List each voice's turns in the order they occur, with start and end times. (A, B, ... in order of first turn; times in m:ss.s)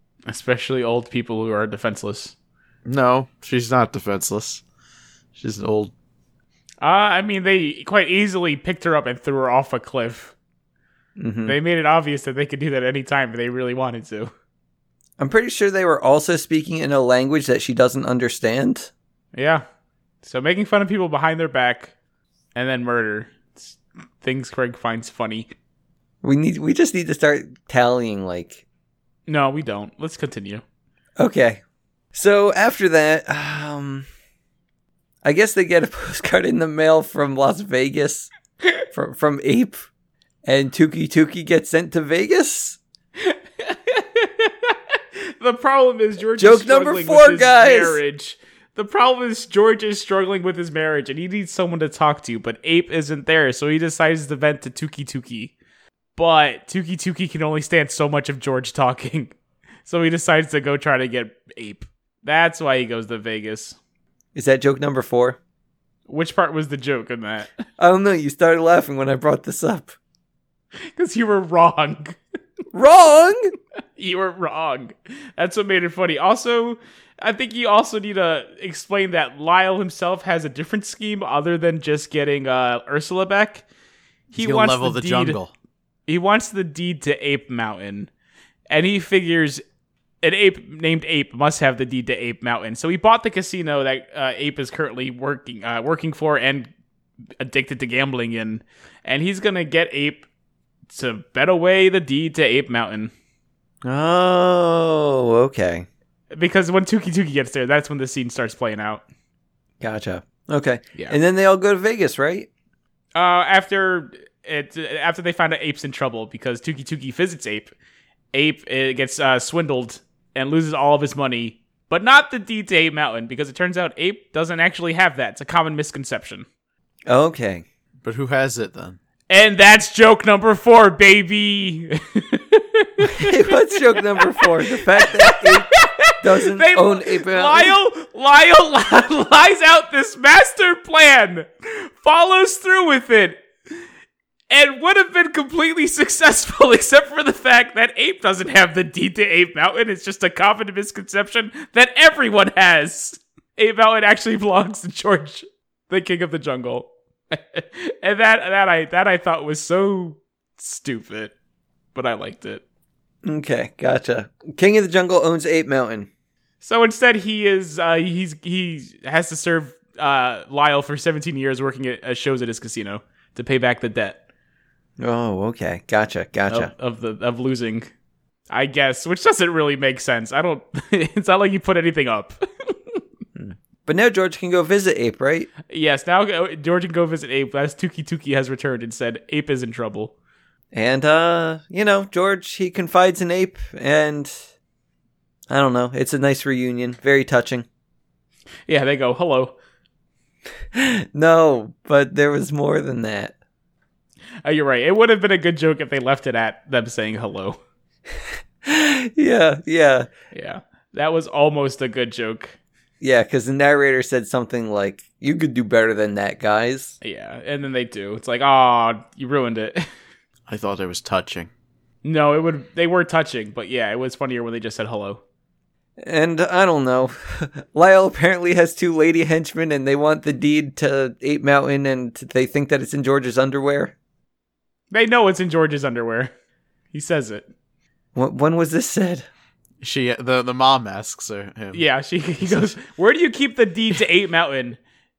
0:00.3-0:02.3 A
0:02.9-0:04.6 B
0:05.4-0:05.9 B
0:06.8-0:10.3 A
0:11.2-0:11.6 C
0:11.4-0:14.3 A
0:15.2-0:18.9 C
0:19.3-0:19.6 A
0:20.2-0:21.9 A
0:22.6-0:25.5 A
0:26.2-0:28.6 C
0:29.3-0:30.6 A
0:31.2-0:31.6 C
0:32.1-0:34.1 C
0:35.2-0:38.3 C
0:38.9-0:39.9 C
0:40.4-0:42.8 C
0:43.2-0:55.5 A
0:46.4-0:48.0 C
0:56.2-0:59.3 A
0:59.9-1:03.8 A
1:04.4-1:05.4 C
1:06.1-1:07.5 A
1:07.8-1:09.9 C
1:10.9-1:12.2 A
1:12.7-1:13.5 C
1:14.0-1:23.6 A
1:24.3-1:25.4 A
1:24.4-1:25.5 B
1:26.1-1:28.1 A
1:28.7-1:29.6 A
1:30.2-1:36.7 A
1:37.4-1:40.3 A
1:40.9-1:43.1 A
1:43.8-1:45.9 C
1:46.3-1:49.0 A
1:49.8-1:52.5 C
1:53.2-1:57.7 A
1:58.3-2:06.5 A
2:07.1-2:07.6 C
2:08.0-2:09.0 B
2:09.3-2:23.4 A
2:13.1-2:15.7 C
2:16.2-2:17.8 C
2:24.5-2:41.3 A
2:42.0-2:42.6 A
2:43.2-2:46.1 C
2:46.6-2:54.2 A
2:55.0-2:56.7 C
2:56.5-2:57.9 A
2:58.5-3:03.0 A
3:03.4-3:05.5 C
3:05.7-3:10.1 A
3:10.7-3:14.4 C
3:15.5-3:17.7 C
3:18.7-3:19.5 A
3:20.7-3:23.4 C
3:24.4-3:27.6 A
3:28.6-3:30.1 C
3:30.3-3:32.6 A
3:33.0-3:37.0 C
3:37.0-3:39.9 A
3:40.5-3:41.5 B
3:42.0-3:45.2 A
3:46.0-3:54.0 C
3:54.9-3:56.3 A
3:56.9-3:57.5 A
3:58.2-3:59.3 C
3:59.8-4:01.9 B
4:01.7-4:04.8 A
4:02.4-4:02.8 B